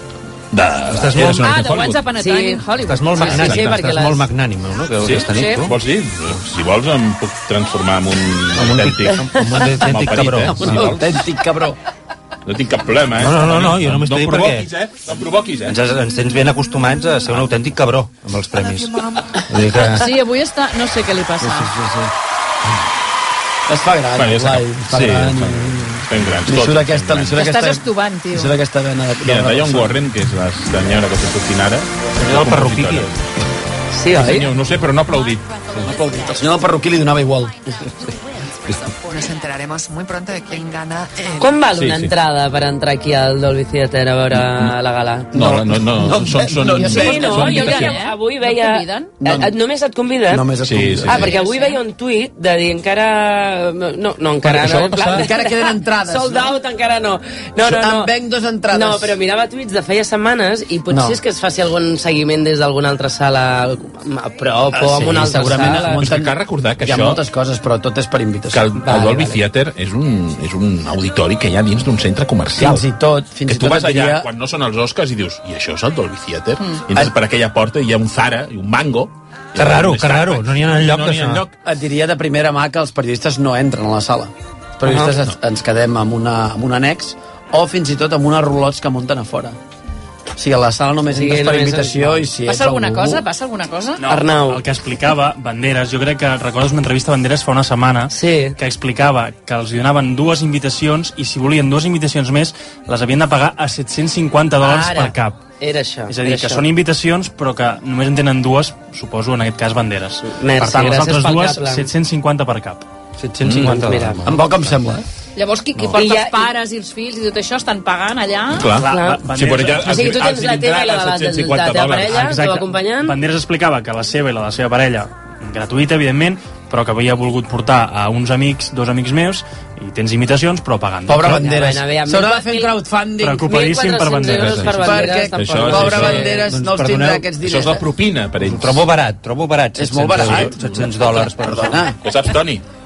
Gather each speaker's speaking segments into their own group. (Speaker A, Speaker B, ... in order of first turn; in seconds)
Speaker A: 0.5-2.0, 3.2-3.8, 5.0-11.2, 12.5-15.8, 24.1-27.5, 29.2-33.2, 34.1-35.5, 41.7-42.1, 44.3-44.8, 45.3-48.0, 50.6-51.3, 54.4-55.3, 66.0-67.2, 68.5-72.8, 73.5-81.5, 113.5-113.8, 118.5-122.2, 134.2-136.3, 137.4-138.8, 140.2-140.5, 142.0-142.6
Speaker B: 0.9-1.7, 2.8-5.8, 8.5-11.1, 13.2-14.7, 15.7-20.1, 32.2-33.1, 79.5-81.5, 84.9-85.2, 113.2-114.9, 115.8-116.0, 135.7-137.3, 138.4-141.9
Speaker C: 1.2-3.8, 5.3-5.6, 19.8-21.7, 27.4-28.6, 46.8-49.1, 51.1-51.8, 92.4-94.0, 115.4-118.8
Speaker D: 2.2-4.3, 33.9-34.5, 41.4-45.3, 46.9-50.5, 51.1-58.1, 58.7-66.1, 68.9-69.3, 91.1-92.2, 94.1-94.6, 98.1-98.6, 104.6-106.7, 110.2-111.9, 113.5-114.2, 115.9-116.5, 118.8-123.2, 131.4-132.8, 133.4-136.4
Speaker E: 10.4-11.8, 21.4-22.0, 23.7-30.0, 36.1-37.5, 45.3-47.4, 49.2-49.5, 50.3-51.3, 55.1-56.5, 57.6-59.1, 60.9-61.2, 64.7-69.3, 72.5-74.3, 81.6-89.6, 90.4-93.2, 114.2-115.0, 131.1-133.6, 134.7-137.8, 139.8-140.7, 141.4-141.9
Speaker F: 38.9-41.6
Speaker G: 94.0-105.4, 106.1-112.9, 118.8-120.2, 122.1-131.6, 133.2-135.1